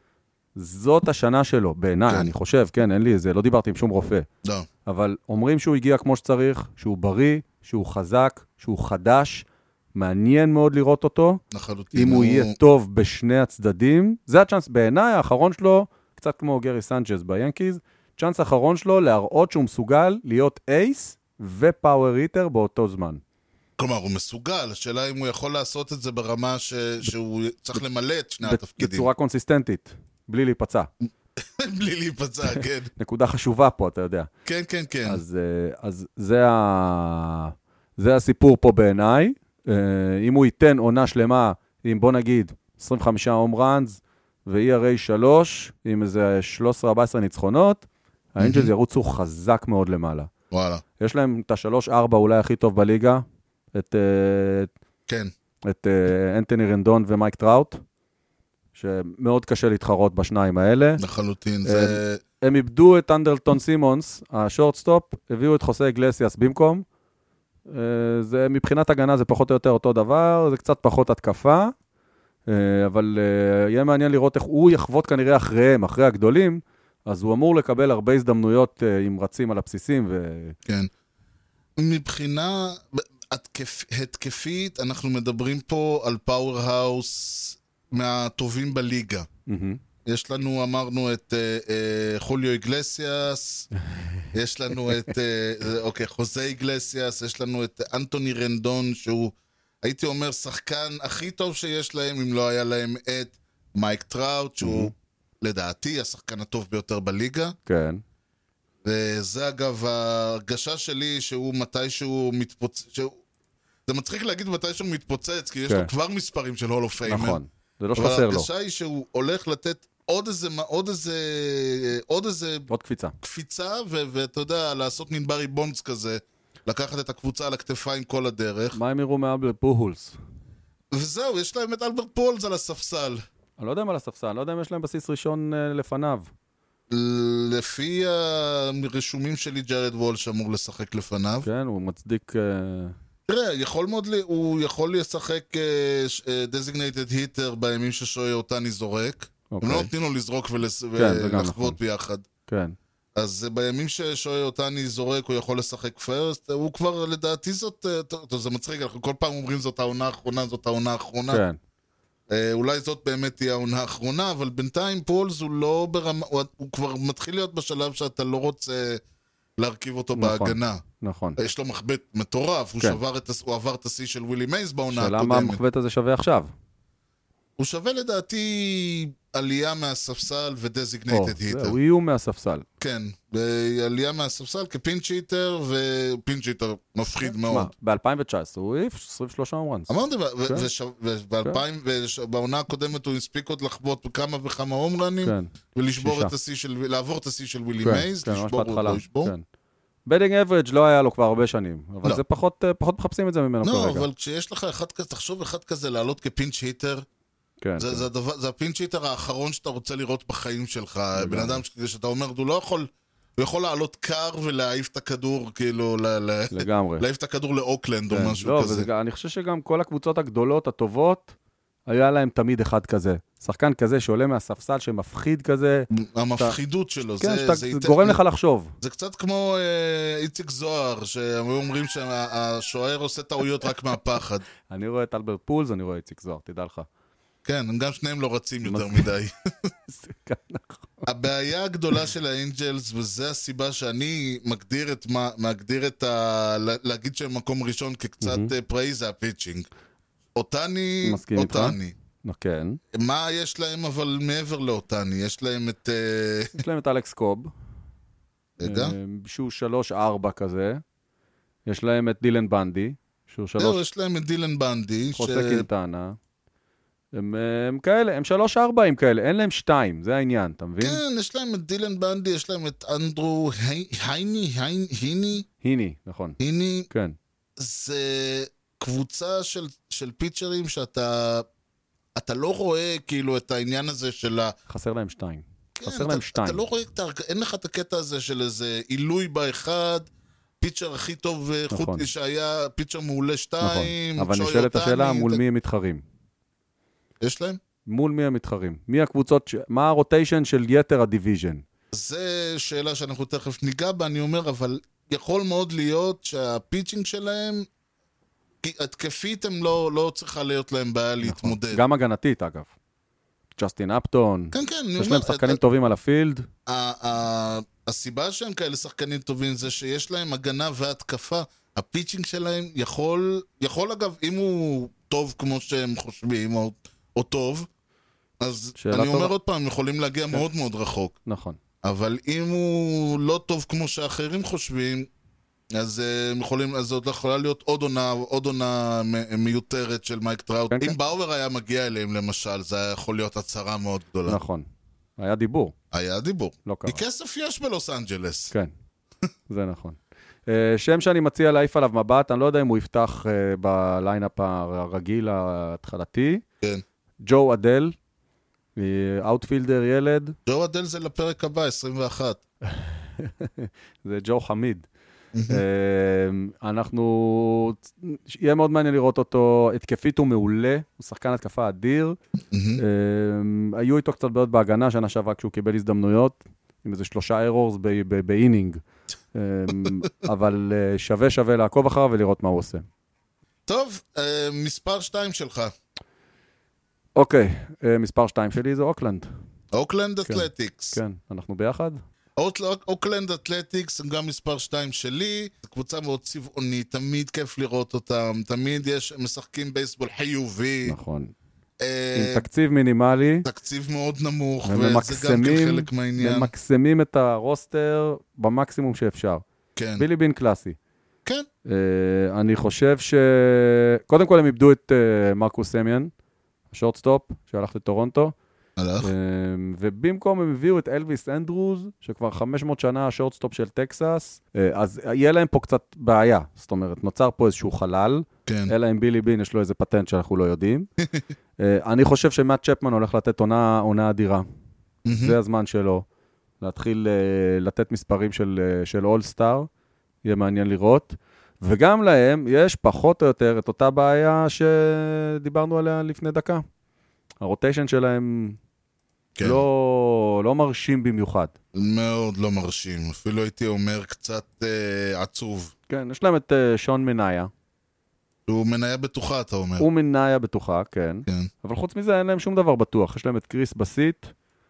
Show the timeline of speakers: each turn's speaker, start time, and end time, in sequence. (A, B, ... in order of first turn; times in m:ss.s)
0:00.6-0:04.3 A
0:04.9-0:11.4 A
0:11.5-0:12.6 B
0:11.9-0:23.2 A
0:23.8-0:29.1 B
0:28.4-0:30.9 A
0:31.4-0:32.9 B
0:33.0-0:34.3 A
0:34.5-0:35.2 B
0:35.1-0:47.8 A
0:48.4-0:50.3 A
0:48.4-0:48.7 B
0:50.5-0:50.8 B
0:51.0-0:54.7 A
0:55.6-0:57.8 A
0:58.8-1:01.0 A
1:01.0-1:02.2 B
1:01.6-1:06.8 A
1:07.7-1:11.7 A
1:12.5-1:20.6 A
1:21.8-1:29.3 B
1:29.5-1:29.8 A
1:30.1-1:33.7 B
1:33.9-1:34.3 A
1:34.3-1:47.6 B
1:34.9-1:35.1 A
1:44.6-1:44.9 A
1:47.7-1:48.0 A
1:48.8-1:53.2 B
1:53.9-1:57.4 B
1:57.0-1:58.5 A
1:58.0-2:02.7 B
2:02.7-2:03.1 A
2:03.2-2:08.8 B
2:08.7-2:10.2 A
2:10.9-2:13.2 B
2:13.6-2:16.3 A
2:16.9-2:21.5 B
2:21.4-2:23.0 A
2:23.3-2:32.3 B
2:29.5-2:29.9 A
2:31.0-2:31.8 A
2:32.5-2:32.8 A
2:33.2-2:41.4 B
2:41.3-2:41.6 A
2:42.3-2:49.0 B
2:49.6-2:50.8 B
2:50.2-2:51.4 A
2:51.4-2:55.6 B
2:54.9-2:56.5 A
2:57.6-3:01.8 B
3:01.1-3:02.7 A
3:02.8-3:07.7 B
3:07.4-3:09.9 A
3:09.9-3:19.3 B
3:15.2-3:16.3 A
3:17.8-3:19.4 A
3:20.1-3:24.1 A
3:23.6-3:27.0 B
3:27.6-3:28.1 A
3:27.8-3:38.9 B
3:31.2-3:31.6 A
3:36.5-3:37.0 A
3:38.1-3:41.3 A
3:41.9-3:46.6 A
3:45.9-3:48.2 B
3:47.2-3:48.7 A
3:48.8-3:54.4 B
3:54.7-3:56.9 A
3:57.4-3:59.7 B
3:58.6-3:59.1 A
3:59.9-4:01.1 A
4:01.1-4:09.7 B
4:08.2-4:08.5 A
4:10.4-4:12.0 B
4:11.0-4:12.8 A
4:12.9-4:16.6 B
4:16.6-4:17.5 A
4:18.6-4:19.0 B
4:18.6-4:20.8 A
4:21.7-4:23.8 A
4:23.6-4:25.7 B
4:25.2-4:26.2 A
4:27.1-4:31.0 A
4:30.8-4:35.5 B
4:35.6-4:36.4 A
4:36.4-4:36.9 B
4:36.9-4:37.2 A
4:37.6-4:41.5 B
4:42.2-4:44.5 B
4:44.7-4:46.6 A
4:45.8-4:50.1 B
4:50.6-4:55.4 B
4:51.7-4:52.1 A
4:53.6-4:56.0 A
4:57.2-4:57.6 B
4:57.9-5:01.6 A
5:01.9-5:07.7 B
5:08.6-5:11.8 B
5:11.2-5:12.7 A
5:13.6-5:16.5 A
5:14.5-5:15.6 B
5:16.7-5:27.7 B
5:28.4-5:31.2 B
5:28.8-5:29.3 A
5:31.3-5:31.6 A
5:31.8-5:35.1 B
5:35.7-5:44.4 B
5:40.7-5:41.0 A
5:44.3-5:44.7 A
5:45.2-5:45.8 A
5:45.9-5:48.5 B
5:46.7-5:47.0 A
5:49.5-5:56.4 A
5:57.2-5:58.0 A
5:58.8-6:00.4 A
6:00.5-6:02.4 B
6:02.7-6:04.8 A
6:05.3-6:05.6 B
6:05.5-6:12.2 A
6:12.5-6:12.8 B
6:12.8-6:18.8 A
6:19.3-6:22.8 A
6:23.7-6:25.7 B
6:27.2-6:29.3 A
6:29.7-6:31.0 B
6:30.3-6:32.0 A
6:32.4-6:41.0 B
6:40.9-6:41.3 A
6:41.8-6:42.4 B
6:42.1-6:43.5 A
6:43.4-6:46.5 B
6:44.6-6:49.4 A
6:49.8-6:50.0 B
6:50.0-6:50.8 A
6:51.7-6:56.1 A
6:56.7-6:58.3 A
6:58.8-6:59.1 B
6:59.0-7:10.9 A
7:08.5-7:08.7 B
7:11.6-7:14.4 A
7:15.0-7:15.4 B
7:15.1-7:16.0 A
7:16.6-7:19.7 A
7:20.2-7:26.6 A
7:27.4-7:28.6 A
7:29.4-7:29.6 B
7:29.4-7:31.5 A
7:31.7-7:35.7 B
7:35.9-7:37.5 A
7:38.5-7:39.9 B
7:39.8-7:44.3 A